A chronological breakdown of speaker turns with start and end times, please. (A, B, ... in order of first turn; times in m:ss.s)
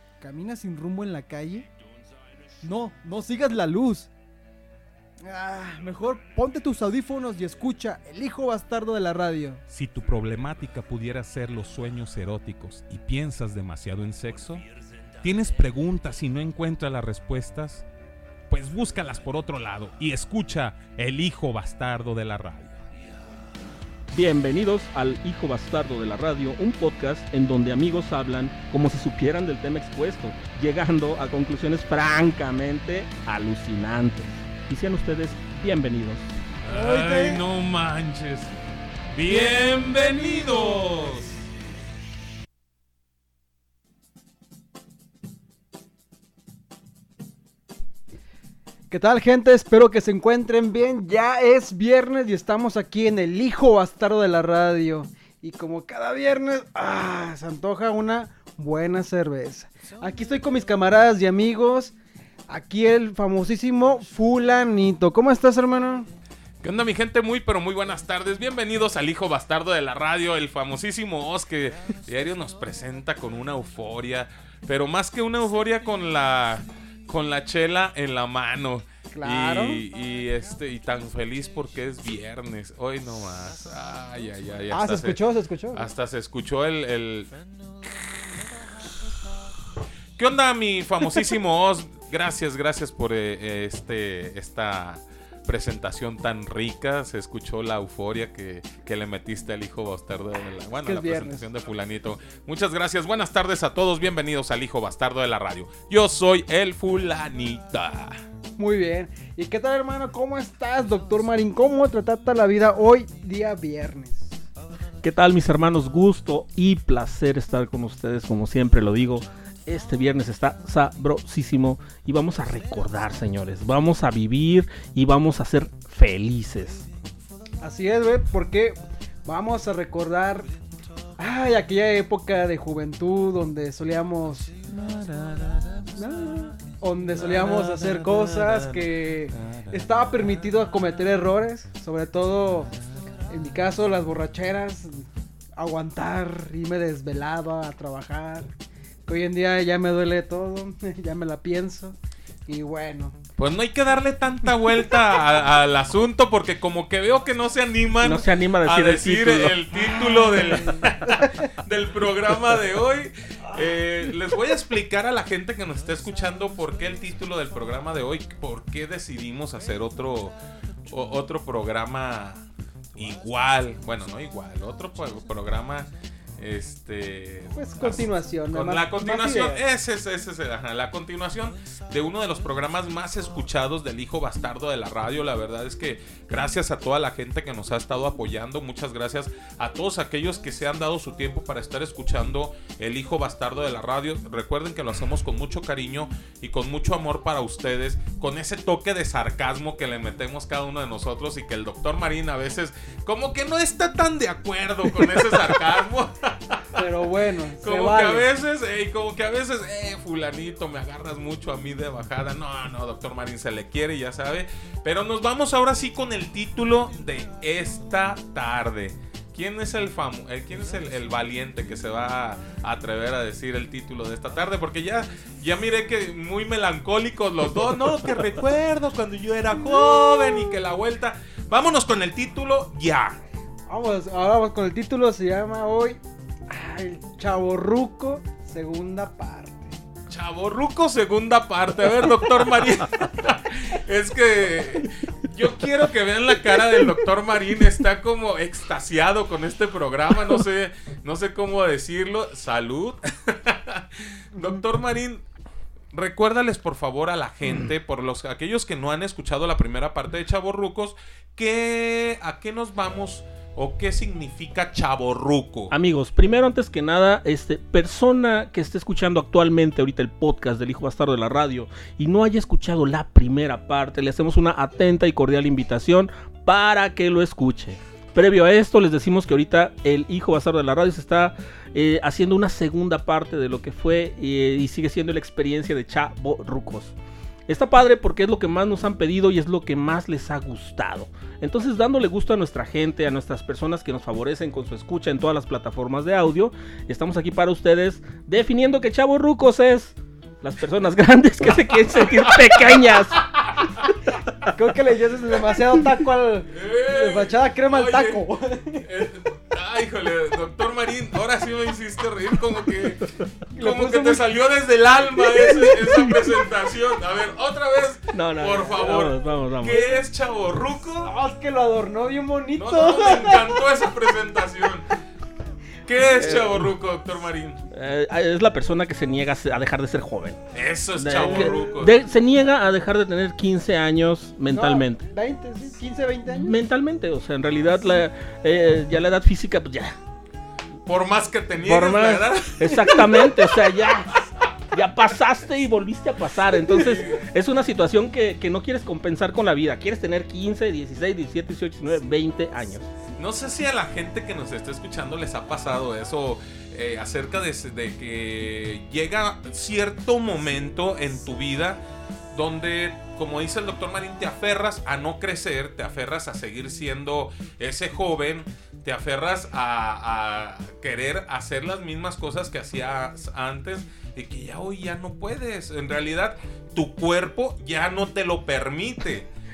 0:00.2-0:01.7 A
0:02.6-0:04.1 A
0:05.2-0:09.6 A
0:09.7-0:14.6 B
0:15.2-0:17.8 B
0:18.5-0:22.8 B
0:24.1-0:36.3 C
0:36.6-0:38.5 B
0:36.7-0:37.4 A
0:39.1-0:41.4 B
0:39.3-0:40.3 A
0:48.9-1:02.0 A
1:02.5-1:06.1 A
1:06.6-1:25.2 B
1:19.1-1:19.8 A
1:24.7-1:25.9 A
1:25.7-1:27.3 B
1:30.2-1:48.2 B
1:40.8-1:41.5 A
1:48.6-1:54.4 A
1:55.0-2:06.9 C
2:07.6-2:10.5 A
2:11.2-2:14.5 A
2:14.7-2:16.0 B
2:16.0-2:22.7 A
2:17.1-2:19.9 B
2:23.3-2:28.5 A
2:29.1-2:33.2 A
2:33.4-3:26.8 B
2:38.0-2:39.6 C
2:40.8-2:41.5 A
2:57.5-2:59.6 A
3:26.7-3:28.3 A
3:27.6-3:53.2 B
3:53.7-3:59.7 A
4:00.1-4:15.2 B
4:15.9-4:25.7 B
4:25.7-4:46.9 C
4:47.5-5:03.2 C
5:02.1-5:04.5 B
5:04.5-5:08.9 A
5:06.5-5:08.2 B
5:08.8-5:21.1 B
5:13.5-5:14.2 A
5:18.1-5:19.8 C
5:21.0-5:23.6 A
5:22.5-5:24.9 B
5:25.8-5:27.6 B
5:26.2-5:26.7 C
5:27.7-5:30.4 C
5:30.5-5:32.0 B
5:31.0-5:35.0 C
5:31.2-5:31.8 A
5:34.5-5:36.6 A
5:36.3-5:40.0 C
5:40.8-5:43.4 B
5:41.6-5:44.1 C
5:44.7-5:52.9 C
5:46.6-5:47.2 B
5:53.2-6:01.8 B
6:02.3-6:19.3 B